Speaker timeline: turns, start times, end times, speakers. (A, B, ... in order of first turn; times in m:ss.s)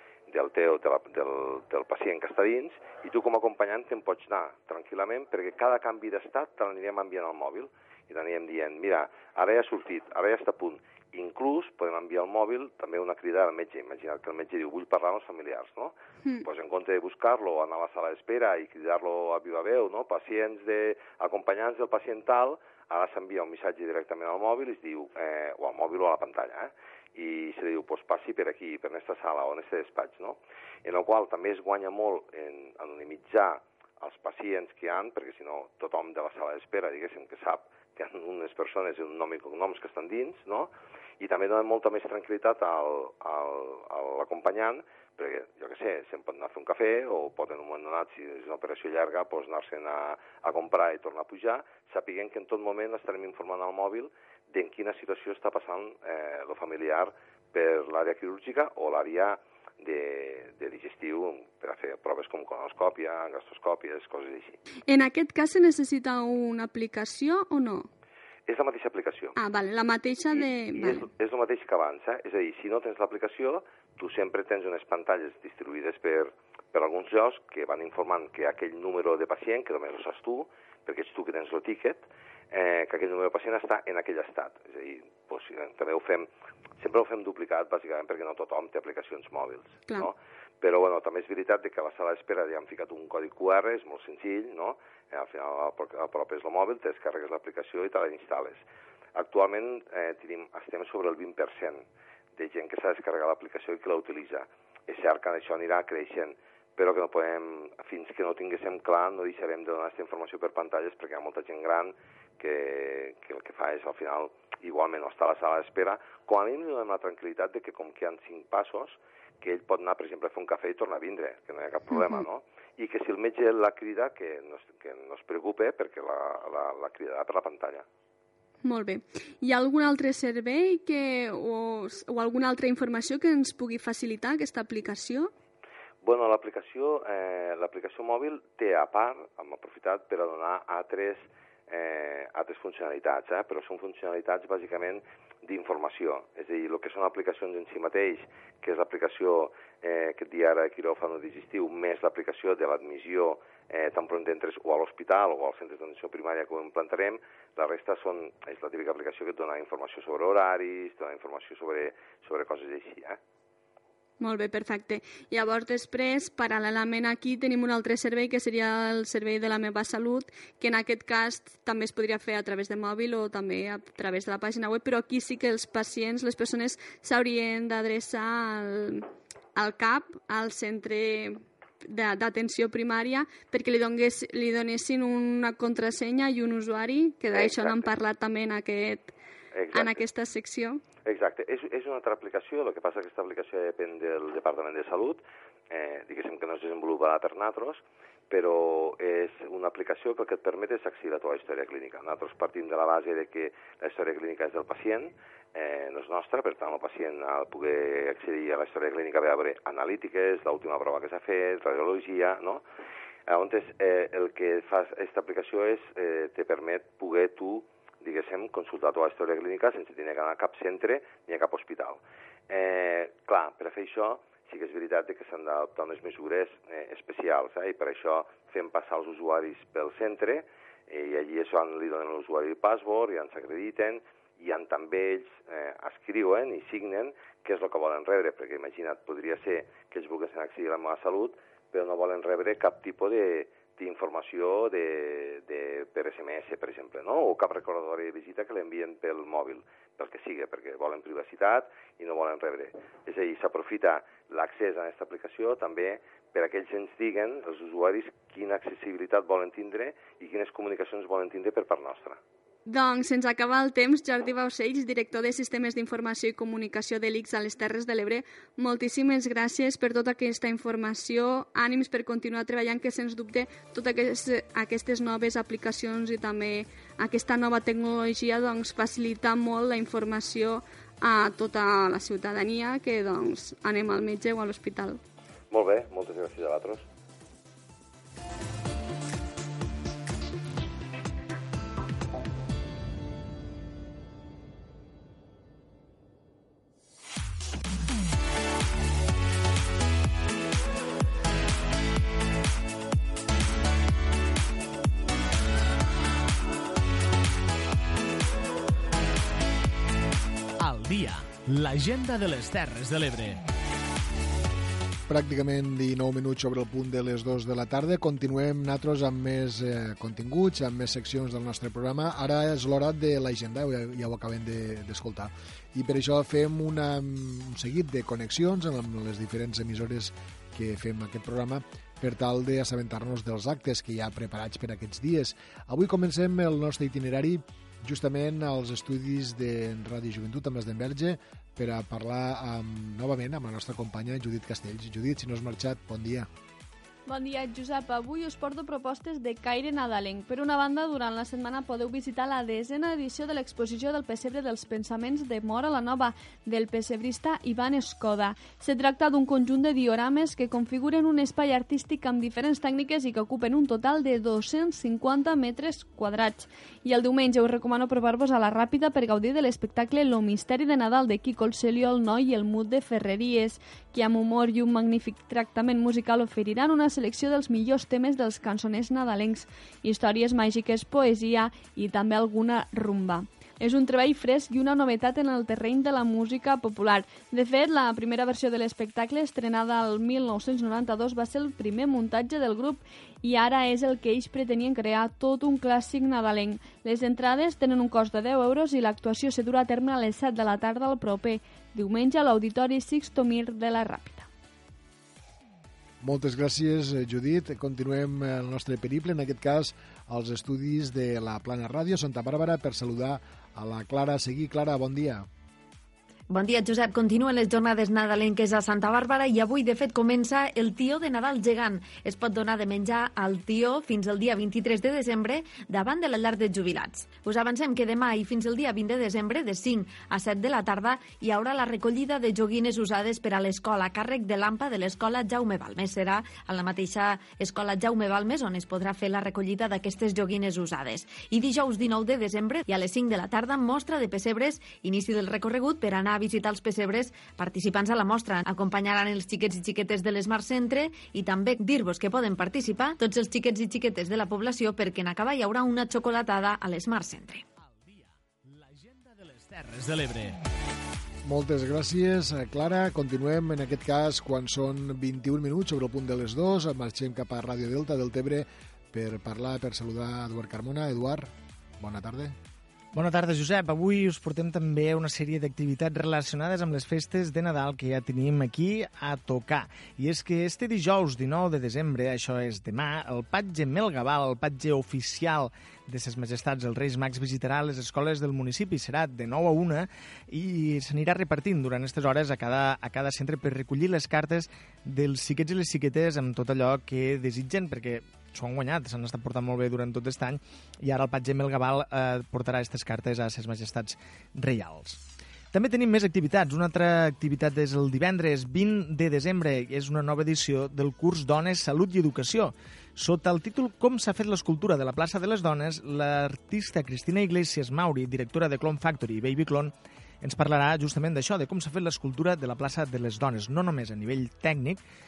0:00.3-0:15.9 A
0:16.4-1:04.6 A
1:04.9-1:07.9 B
1:08.5-1:09.4 A
1:09.4-1:11.0 B
1:10.3-1:26.3 A
1:26.8-1:38.6 A
1:39.2-1:41.8 A
1:42.4-2:07.8 A
2:08.6-2:15.3 B
2:16.0-2:43.2 A
2:44.2-2:59.0 B
2:59.6-3:01.4 B
3:01.9-3:09.1 B
3:07.3-3:08.0 A
3:09.5-3:10.0 A
3:09.7-3:10.8 B
3:11.0-3:15.2 A
3:15.7-3:32.6 A
3:33.3-4:22.2 A
4:22.7-4:45.0 B
4:45.5-4:46.8 A
5:10.6-5:13.4 C
5:15.1-5:46.3 D
5:47.1-6:44.3 B
6:46.0-6:55.2 D
6:56.3-7:37.4 E
7:37.6-7:40.4 C
7:41.2-7:52.4 D
7:52.9-8:25.0 F
7:54.0-7:54.3 C
7:57.0-7:57.3 C
8:00.2-8:00.6 C
8:25.6-8:32.5 F
8:31.2-8:31.7 C
8:33.0-8:39.7 F
8:36.7-8:37.0 C
8:40.2-8:44.8 F
8:41.7-8:42.0 C